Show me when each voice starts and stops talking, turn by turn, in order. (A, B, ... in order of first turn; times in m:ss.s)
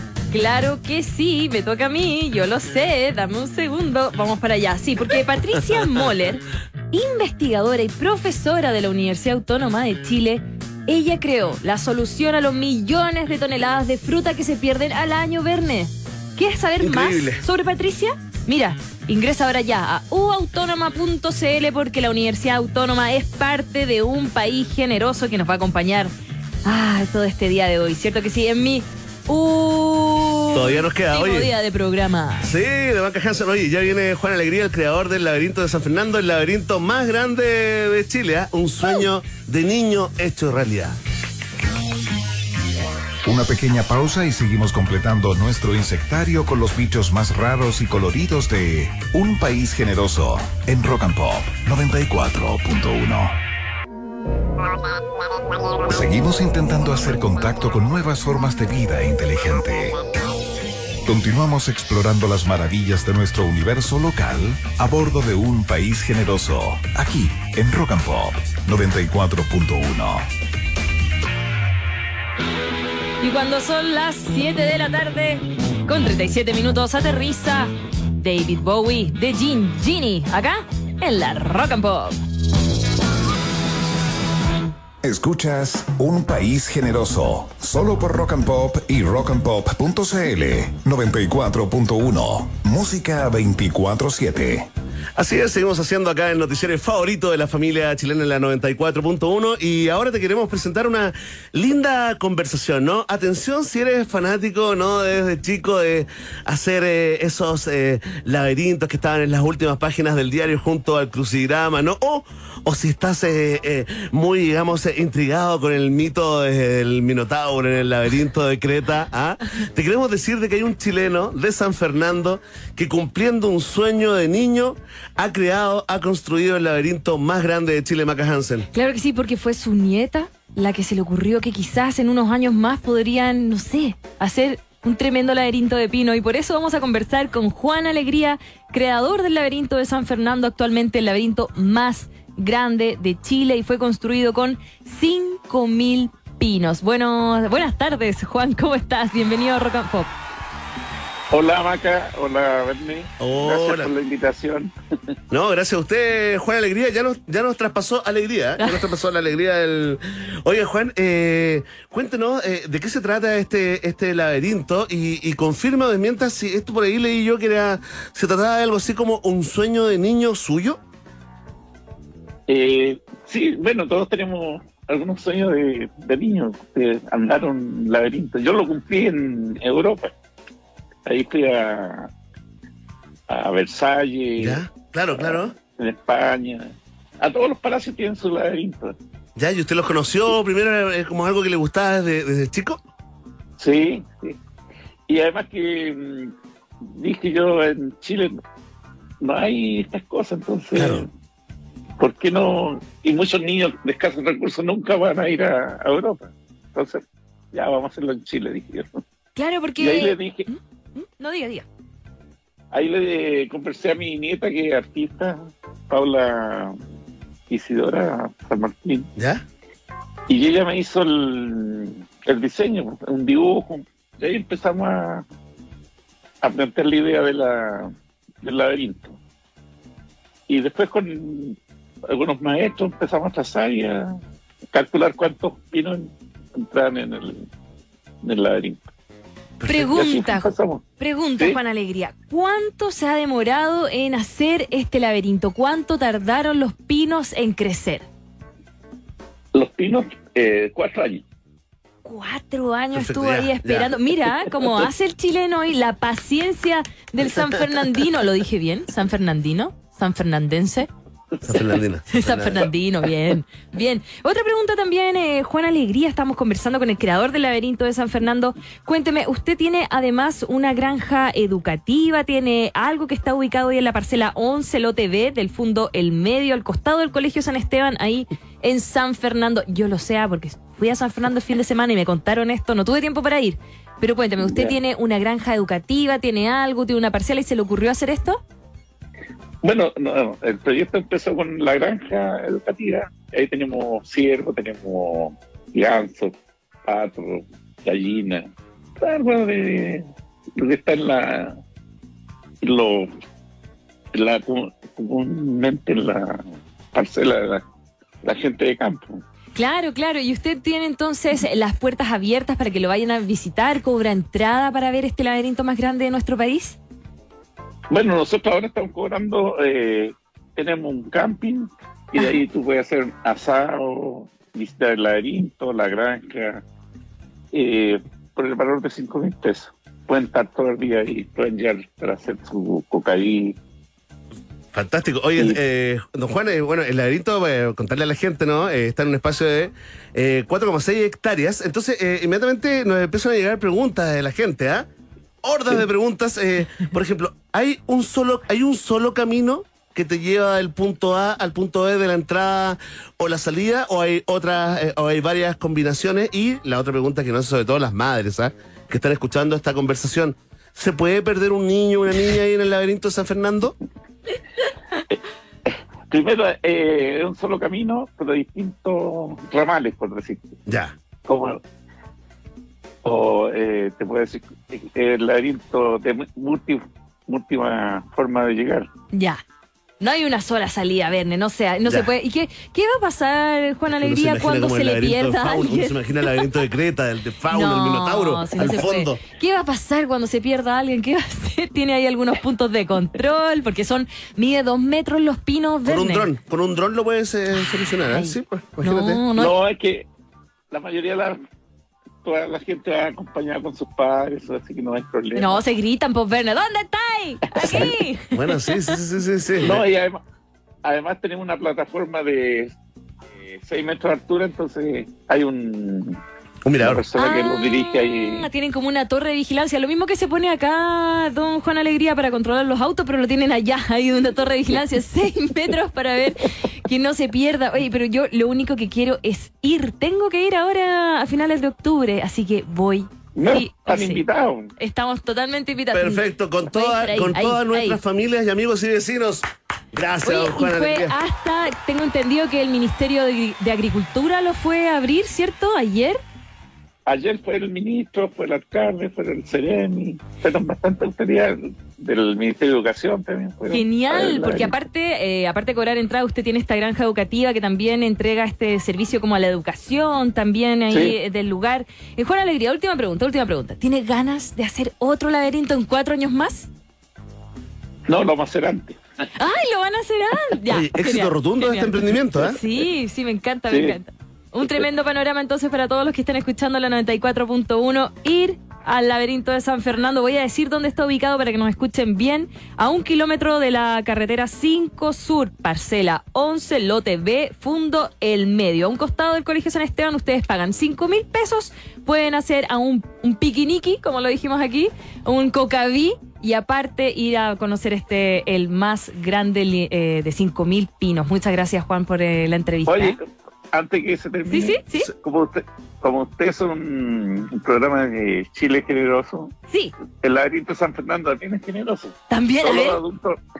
0:00.3-0:26.1 A
0:16.8-0:17.4 B
0:26.6-0:32.5 A
0:30.5-0:31.5 B
0:32.4-0:41.0 B
0:43.2-0:53.4 C
0:55.9-1:00.0 C
1:01.0-1:10.3 C
1:13.2-1:22.2 A
1:25.0-1:34.7 C
1:35.2-2:08.7 B
2:08.7-2:30.1 A
2:31.3-2:34.7 D
2:33.2-2:33.9 B
2:35.3-2:50.8 B
2:38.6-2:38.8 A
2:52.5-3:00.1 D
3:01.0-3:02.1 D
3:03.3-3:04.6 D
3:04.4-3:05.5 B
3:05.1-3:09.0 D
3:09.4-3:12.8 B
3:13.6-3:14.4 D
3:15.1-3:18.4 D
3:19.2-3:21.1 D
3:20.7-3:21.0 B
3:22.0-3:29.0 D
3:29.4-3:31.6 A
3:29.8-3:30.5 D
3:32.7-3:36.8 D
3:37.5-3:39.1 D
3:39.2-3:39.4 B
3:40.3-3:45.2 D
3:46.4-3:49.2 D
3:50.5-3:54.2 D
3:54.7-3:57.5 D
3:58.2-3:58.9 D
3:59.6-3:59.8 B
3:59.6-4:08.0 A
3:59.7-4:00.8 D
4:09.5-4:11.2 D
4:12.0-4:20.9 A
4:12.9-4:13.9 B
4:21.4-4:22.7 B
4:22.1-4:48.4 A
4:44.4-4:44.8 D
4:49.6-4:56.3 D
4:56.8-5:01.6 D
5:02.6-5:03.1 D
5:04.1-5:07.6 D
5:08.2-5:09.2 D
5:09.5-5:16.8 A
5:17.9-5:26.6 D
5:27.5-5:33.6 D
5:34.7-5:44.9 B
5:45.4-6:03.8 B
6:05.1-6:10.6 D
6:10.7-6:10.9 B
6:11.2-6:11.6 D
6:13.0-6:18.9 D
6:19.1-6:19.4 A
6:20.0-6:26.5 A
6:23.9-6:29.2 B
6:27.5-6:36.3 A
6:35.8-6:39.2 B
6:37.7-6:39.6 A
6:39.3-6:40.1 D
6:40.7-6:41.4 D
6:42.2-6:45.6 D
6:45.3-6:48.9 A
6:47.6-6:47.9 D
6:47.6-6:49.8 B
6:49.6-6:50.2 D
6:50.8-6:52.7 D
6:53.3-6:56.2 D
6:56.6-6:57.0 B
6:56.8-6:58.5 D
6:57.1-7:14.2 A
7:13.3-7:14.7 D
7:14.8-7:18.0 A
7:15.9-7:21.1 B
7:20.2-7:26.2 A
7:27.0-7:34.7 D
7:33.7-7:46.7 A
7:40.9-7:41.2 D
7:48.1-7:49.0 D
7:49.4-8:23.2 A
7:50.7-7:52.6 B
7:53.7-7:54.0 D
8:22.8-8:29.5 D
8:24.5-8:25.1 A
8:29.7-8:29.9 A
8:30.2-8:33.4 D
8:32.3-8:33.0 A